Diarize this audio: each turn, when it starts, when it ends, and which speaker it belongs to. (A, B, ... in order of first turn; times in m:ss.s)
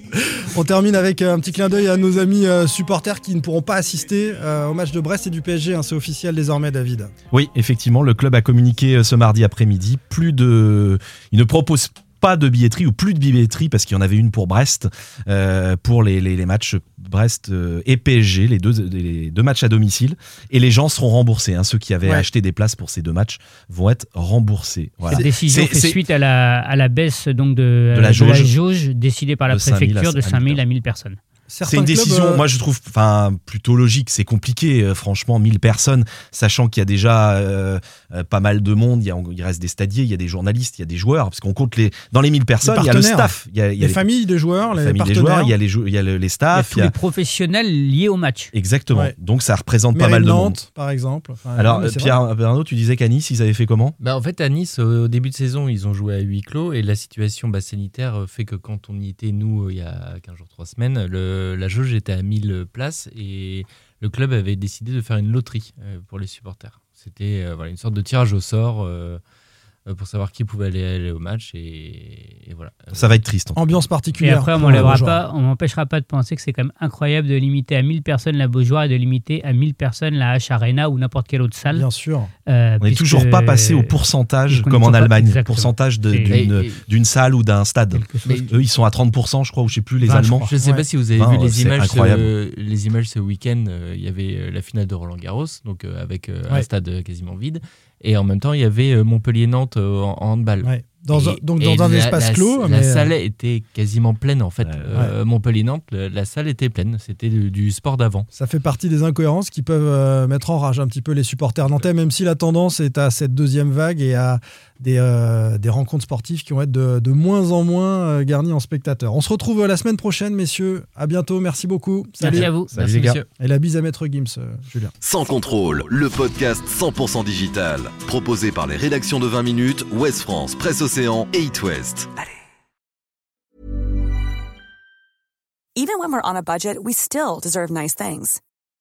0:00.1-0:07.1 A
0:07.3-0:26.0 B
0:25.1-0:31.2 C
0:27.9-0:28.5 B
0:29.5-0:30.6 B
0:31.5-0:32.4 A
0:31.6-0:44.0 B
0:42.6-0:45.5 A
0:44.7-0:46.9 B
0:46.5-0:48.5 C
0:48.5-0:50.6 B
0:49.9-0:52.2 A
0:51.6-0:54.0 B
0:54.0-1:09.2 D
1:09.9-1:13.2 D
1:12.9-1:13.6 B
1:13.6-1:15.2 A
1:14.2-1:21.8 C
1:21.7-1:22.3 A
1:22.5-1:24.0 C
1:22.8-1:30.5 B
1:24.5-1:26.3 C
1:26.3-1:26.8 D
1:27.9-1:28.5 C
1:28.2-1:28.5 D
1:30.0-1:30.8 A
1:30.1-1:48.3 D
1:31.1-1:32.3 B
1:40.6-1:43.1 A
1:44.6-1:44.9 B
1:48.3-2:02.5 A
2:02.2-2:02.7 C
2:02.3-2:03.2 B
2:02.5-2:03.2 D
2:03.4-2:04.9 A
2:05.0-2:12.1 E
2:15.8-2:18.4 F